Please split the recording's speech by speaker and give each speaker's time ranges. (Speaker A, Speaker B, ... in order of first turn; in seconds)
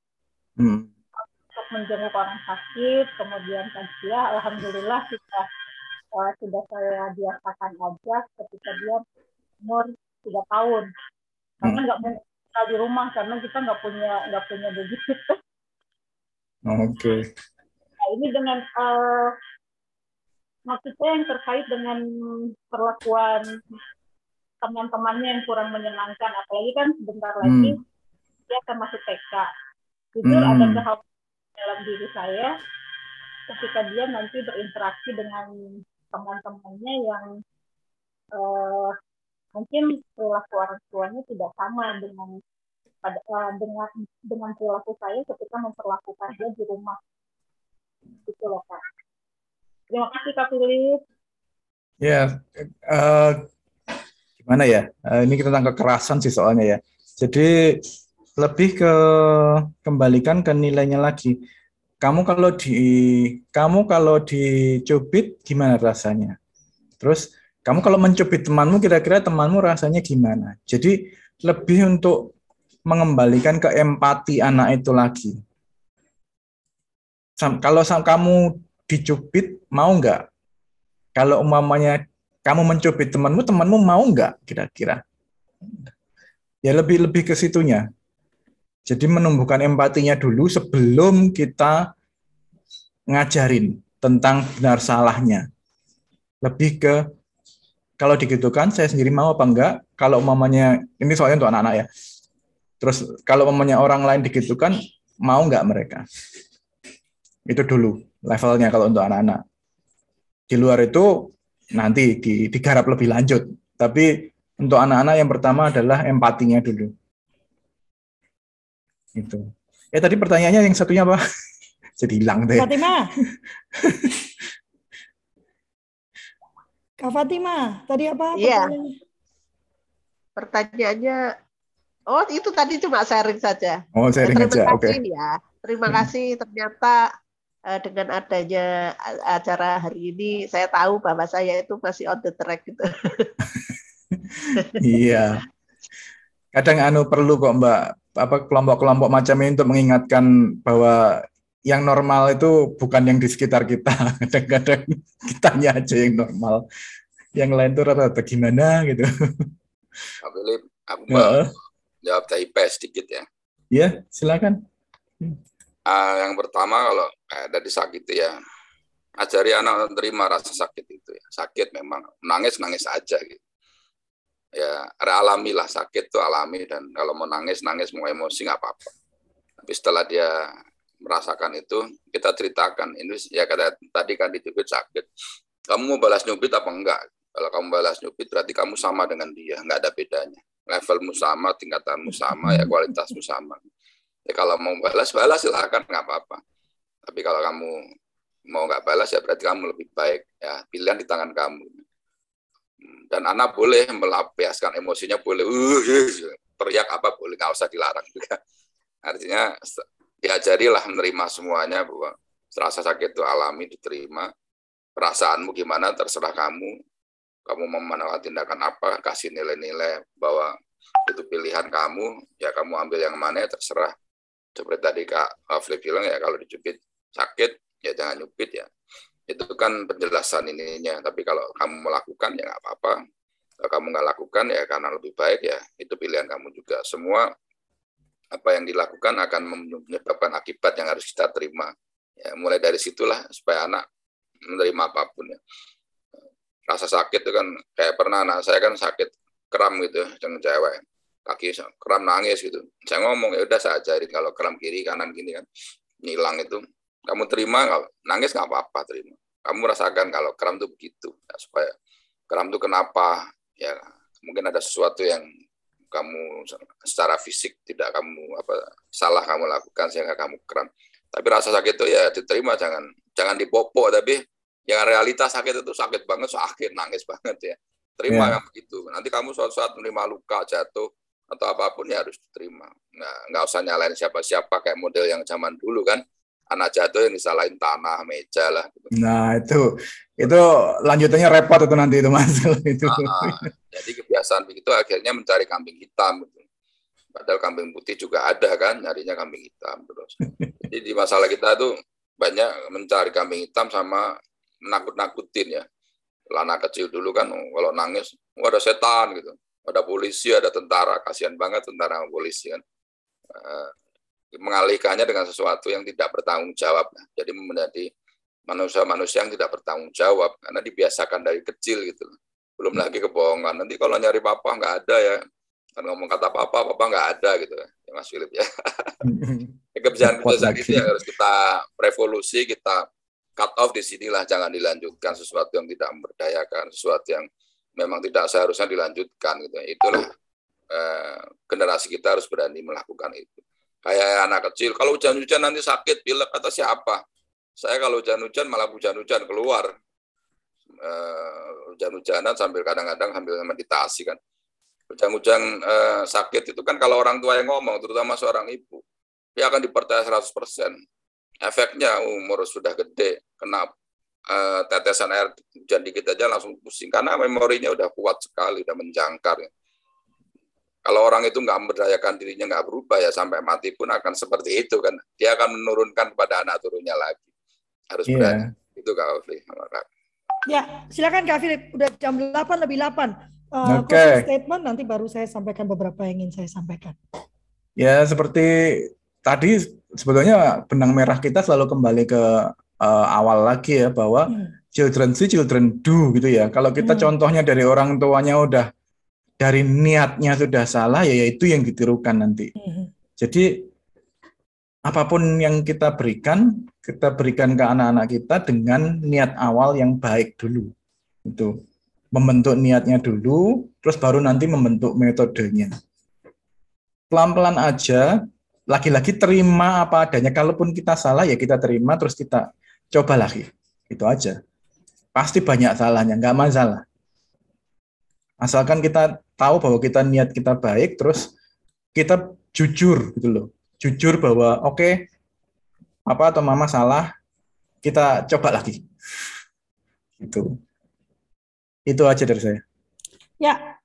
Speaker A: 0.6-0.9, 16.7-17.3, 27.4-27.8, 30.2-30.8, 52.0-53.5, 54.4-57.8, 58.4-61.4, 62.0-66.4, 67.0-72.3, 72.9-75.4, 77.4-80.3, 81.2-85.0, 86.7-87.8, 88.9-91.9, 93.1-95.5, 96.4-97.0, 98.0-101.9, 102.8-106.0, 107.5-109.4, 110.5-116.9, 119.2-121.2, 122.0-122.8, 123.3-124.2, 134.0-135.0, 144.8-145.4, 146.5-156.7, 157.4-159.5, 161.1-161.5, 163.7-164.6, 278.1-278.4, 288.9-289.7, 290.2-293.4, 329.0-331.0, 378.1-378.5, 383.7-384.2, 387.8-398.7, 399.4-402.5, 403.2-403.6, 404.9-410.7, 411.3-411.6, 412.1-415.7, 417.1-418.1, 418.7-424.4, 425.1-426.8, 428.4-431.3, 432.0-435.0, 436.1-437.1, 437.8-438.8, 440.2-440.5, 441.9-442.6
Speaker B: 1.5-5.5, 6.2-9.0, 9.6-10.9, 11.6-15.4, 18.1-19.4, 20.7-22.0, 22.7-23.6, 24.6-27.8, 28.5-29.5, 30.2-31.0, 31.6-32.5, 33.5-35.5, 36.1-37.3, 38.4-39.0, 39.6-42.4, 43.0-47.0, 48.3-48.8, 49.9-51.0
Speaker C: 122.6-123.1, 127.0-128.9, 380.5-387.0, 396.8-397.1, 402.6-402.9
Speaker D: 128.4-128.7, 130.4-131.2, 132.1-137.0, 137.7-143.3, 144.6-144.9
Speaker E: 160.2-161.5, 162.0-163.3, 165.9-168.3, 169.2-173.4, 174.6-178.9, 179.6-180.3, 181.0-185.1, 185.7-193.6, 194.3-196.4, 197.1-197.8, 198.5-201.8, 203.1-208.4, 209.1-214.3, 215.0-216.8, 217.5-220.5, 221.1-223.9, 224.6-228.7, 229.3-233.0, 233.6-237.3, 238.3-243.8, 244.5-245.4, 246.7-255.4, 256.1-261.7, 262.3-265.3, 265.9-288.9, 292.9-296.4, 297.1-304.1, 304.6-305.6, 306.3-312.6, 313.4-313.7, 314.4-317.9, 318.5-325.2, 325.8-329.0, 329.8-332.9, 333.4-337.3, 337.8-340.1, 340.7-347.0, 347.6-349.7, 350.8-354.2, 354.9-358.8, 359.4-360.8, 361.4-363.7, 364.3-369.5, 370.9-377.3, 377.9-379.9